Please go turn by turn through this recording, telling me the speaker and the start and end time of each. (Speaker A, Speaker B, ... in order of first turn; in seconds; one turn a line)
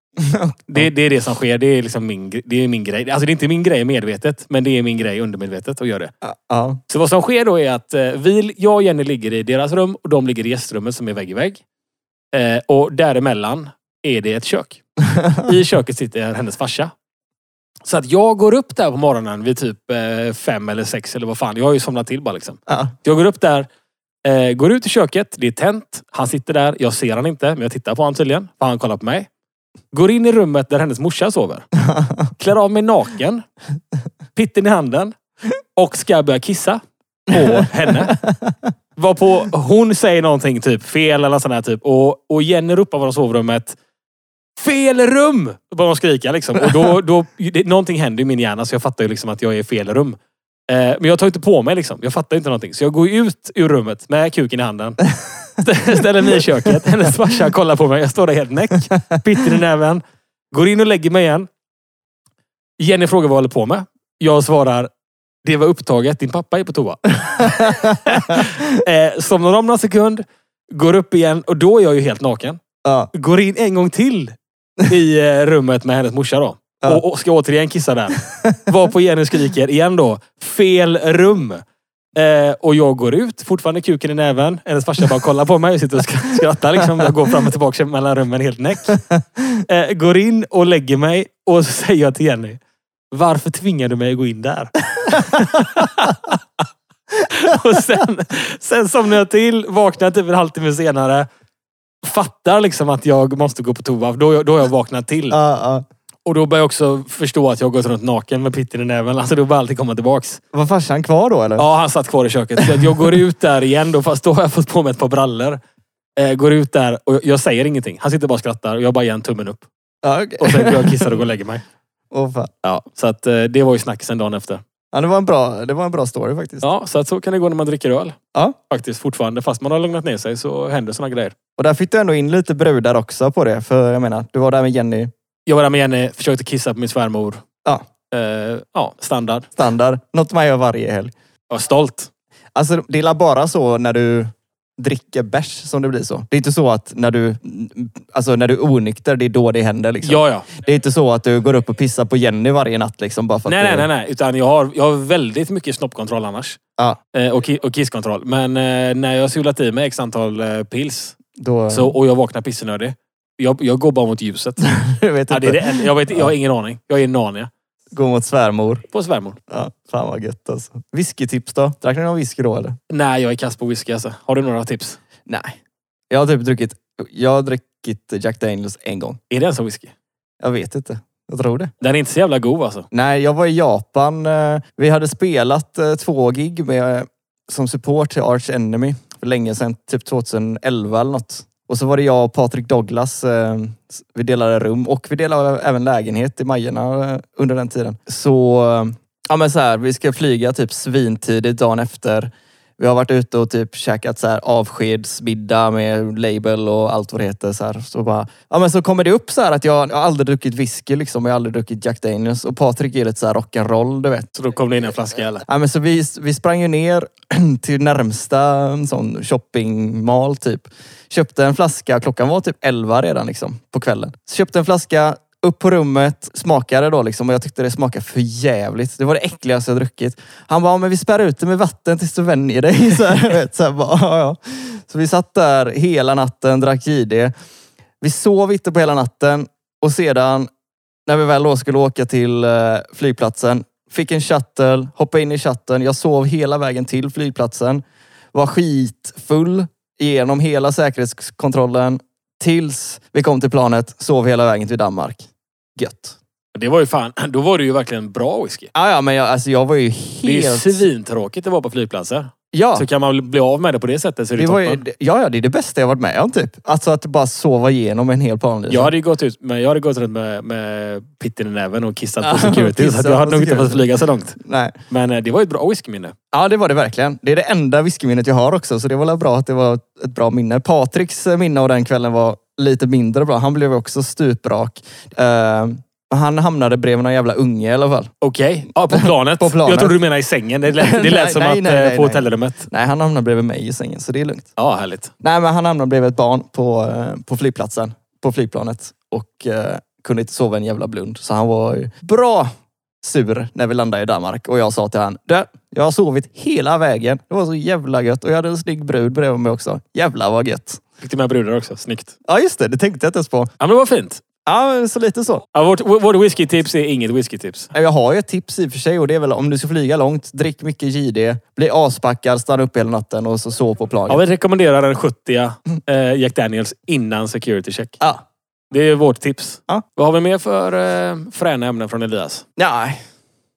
Speaker A: 0.2-0.9
Speaker B: 0.7-6.1
Speaker A: 6.2-6.8
Speaker B: 6.9-11.6
Speaker B: 12.3-14.8
Speaker A: 15.1-15.5
Speaker B: 15.4-16.9
Speaker B: 17.8-23.7
Speaker B: 24.2-29.3
Speaker B: 29.9-31.7
Speaker A: 31.8-32.3
Speaker B: 32.4-33.4
Speaker B: 34.4-35.1
Speaker B: 35.8-38.2
Speaker A: 37.5-38.5
Speaker B: 39.0-43.8
Speaker B: 44.6-50.2
Speaker B: 50.7-55.0
Speaker B: 55.6-61.5
Speaker B: 62.8-64.9
Speaker B: 65.4-72.6
Speaker A: 67.3-68.6
Speaker A: 72.8-73.1
Speaker B: 73.1-81.6
Speaker A: 78.3-78.6
Speaker B: 82.1-89.0
Speaker B: 89.6-96.4
Speaker A: 95.1-95.8
Speaker B: 97.2-101.3
Speaker B: 102.0-105.4
Speaker A: 105.3-105.8
Speaker B: 106.2-110.4
Speaker A: 110.5-111.6
Speaker B: 111.6-115.6
Speaker B: 116.2-119.7
Speaker A: 120.0-121.1
Speaker B: 120.4-121.6
Speaker A: 122.1-122.5
Speaker B: 122.6-124.6
Speaker A: 124.9-126.6
Speaker B: 126.6-128.2
Speaker B: 128.7-131.3
Speaker A: 131.6-135.1
Speaker B: 135.5-137.4
Speaker B: 138.1-139.5
Speaker A: 139.6-141.1
Speaker B: 141.5-142.1
Speaker A: 142.5-153.9
Speaker B: 150.0-150.5
Speaker B: 153.4-156.6
Speaker B: 157.1-161.2
Speaker A: 161.3-161.9
Speaker B: 161.7-164.7
Speaker A: 164.6-166.3
Speaker B: 165.3-167.5
Speaker A: 167.9-168.8
Speaker B: 168.9-169.4
Speaker A: 169.5-172.8
Speaker B: 172.9-175.0
Speaker A: 175.3-175.6
Speaker A: 176.1-179.2
Speaker B: 179.3-179.9
Speaker A: 180.4-181.7
Speaker B: 181.8-182.9
Speaker A: 182.9-214.3
Speaker B: 214.3-215.4
Speaker A: 215.4-237.3
Speaker A: 238.0-240.5
Speaker A: 241.1-247.8
Speaker A: 248.3-256.2
Speaker B: 256.5-258.7
Speaker A: 258.7-260.8
Speaker B: 260.2-264.8
Speaker A: 262.5-262.9
Speaker A: 264.3-268.9
Speaker B: 268.7-274.4
Speaker A: 272.2-274.8
Speaker B: 274.9-276.1
Speaker A: 276.3-288.1
Speaker B: 288.2-292.7
Speaker A: 288.9-289.9
Speaker A: 290.8-294.5
Speaker B: 294.6-295.1
Speaker A: 295.2-302.5
Speaker A: 303.0-310.8
Speaker B: 311.0-312.1
Speaker A: 312.2-313.5
Speaker B: 313.6-314.2
Speaker A: 314.4-315.4
Speaker B: 315.5-317.7
Speaker A: 317.7-324.2
Speaker B: 324.1-328.0
Speaker B: 328.7-332.4
Speaker A: 332.6-333.0